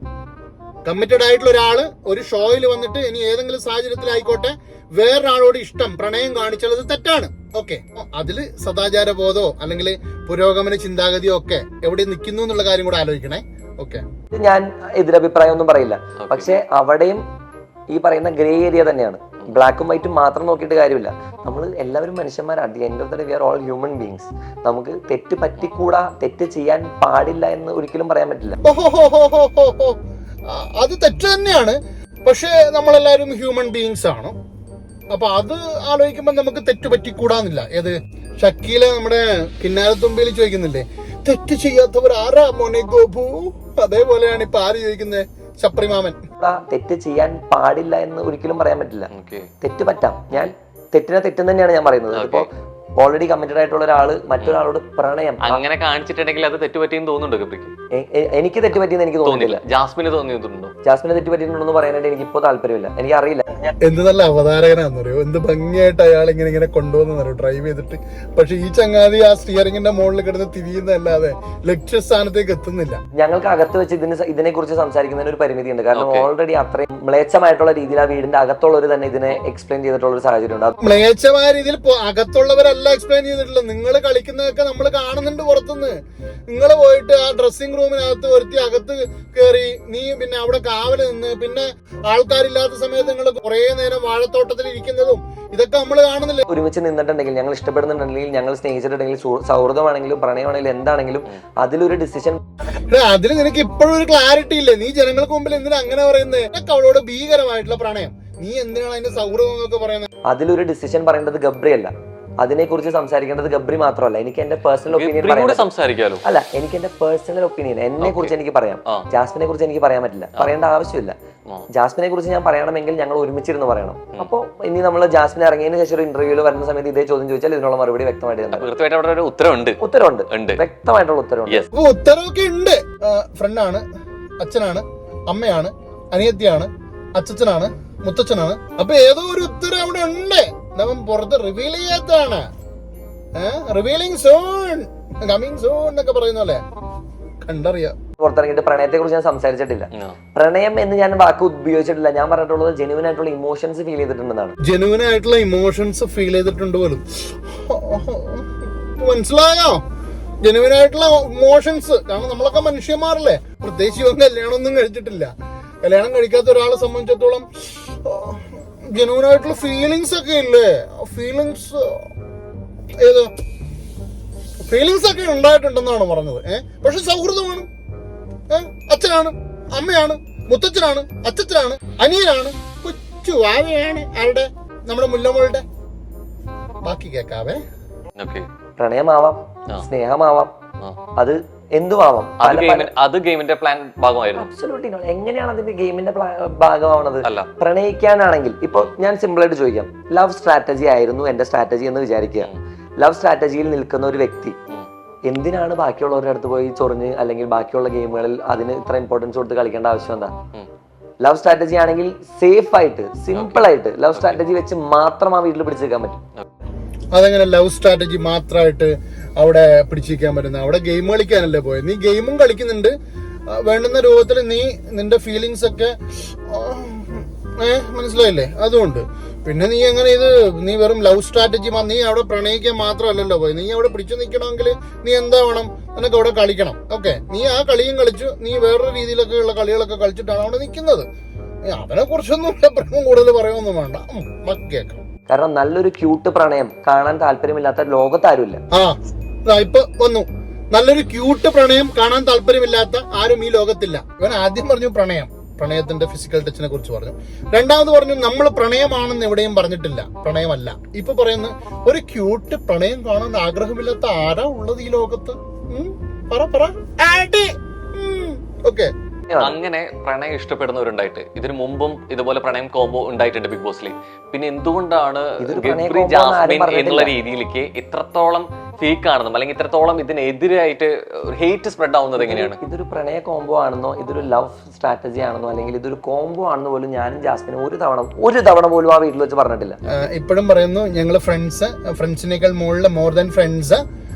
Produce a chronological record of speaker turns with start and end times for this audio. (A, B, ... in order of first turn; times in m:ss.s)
0:00.8-0:14.0 A
0:14.3-0:17.2 B
0:16.2-0:16.6 C
0:17.9-0:28.6 B
0:28.6-0:30.0 A
0:30.5-0:34.3 A
0:35.1-0:46.2 A
0:46.4-0:49.1 B
0:49.1-0:49.5 C
0:49.6-0:55.6 B
0:52.1-0:52.5 C
0:55.4-0:57.7 C
0:57.9-0:59.6 B
0:59.2-1:00.7 C
1:00.8-1:03.4 B
1:03.8-1:13.0 A
1:13.2-1:20.8 B
1:15.9-1:16.3 C
1:20.8-1:26.0 A
1:26.5-1:36.4 A
1:36.5-1:42.4 B
1:42.7-1:50.1 A
1:50.3-1:55.7 B
1:54.9-1:56.2 C
1:56.2-2:01.1 B
1:58.0-1:58.3 C
2:01.7-2:08.6 B
2:08.5-2:10.6 C
2:09.8-2:11.6 B
2:11.7-2:13.8 A
2:14.4-2:22.5 A
2:23.4-2:26.6 A
2:27.4-2:27.9 A
2:28.2-2:34.6 B
2:34.6-2:39.8 A
2:40.4-2:45.3 A
2:45.8-2:52.1 A
2:53.0-2:53.3 A
2:54.6-2:57.7 A
2:58.5-3:05.6 A
3:06.8-3:07.6 A
3:08.2-3:08.5 C
3:08.8-3:10.5 B
3:11.2-3:12.9 B
3:12.4-3:14.5 C
3:14.3-3:24.6 B
3:25.3-3:30.3 B
3:31.2-3:36.2 B
3:33.3-3:34.4 C
3:37.1-3:42.9 A
3:43.5-3:46.0 A
3:46.5-4:01.0 A
4:01.6-4:05.0 A
4:05.3-4:08.6 B
4:08.7-4:28.9 A
4:29.3-4:29.6 B
4:29.4-4:42.6 C
4:35.4-4:37.1 B
4:42.2-4:49.8 B
4:49.9-4:53.8 A